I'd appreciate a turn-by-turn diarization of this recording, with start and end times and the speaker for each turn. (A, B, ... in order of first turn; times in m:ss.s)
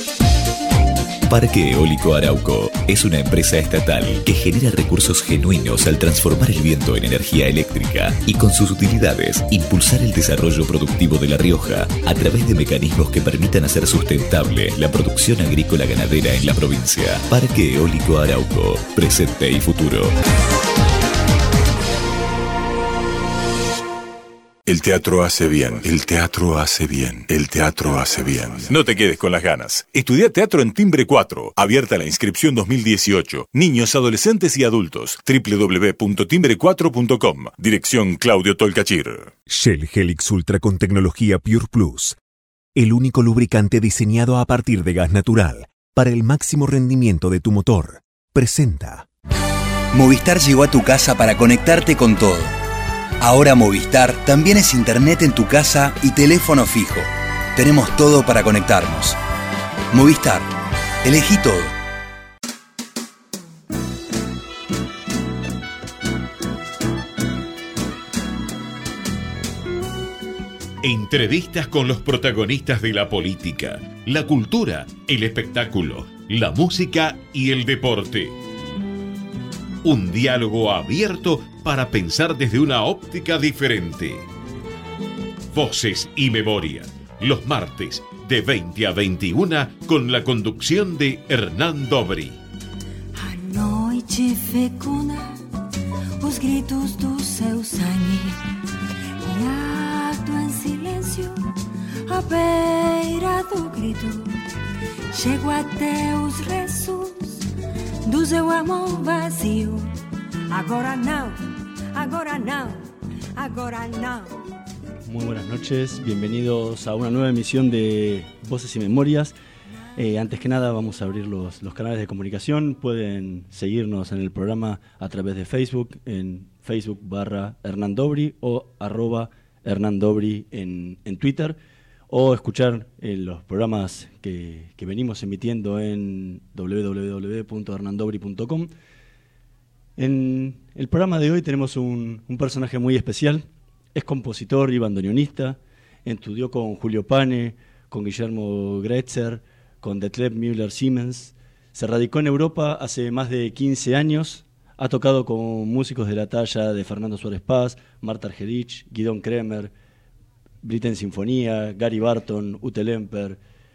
0:01.3-0:20.1 A
0:24.6-0:39.3 B
0:39.5-0:42.2 C
0:42.7-0:49.0 C
0:49.9-0:52.5 D
0:53.2-0:59.2 D
0:59.9-1:00.5 D
1:01.0-1:01.7 D
1:10.8-1:18.4 E
1:19.8-1:24.3 E
1:25.5-1:32.4 E
1:33.2-1:35.6 F
1:36.2-1:38.5 F
1:39.2-1:44.5 F
1:45.1-1:47.5 F
1:48.0-1:50.0 F
1:50.5-1:51.4 F
1:51.9-1:52.8 F
1:53.4-1:54.3 F
1:55.0-1:59.3 G
2:00.0-2:18.7 G
2:20.0-2:39.7 G
2:40.6-2:43.4 G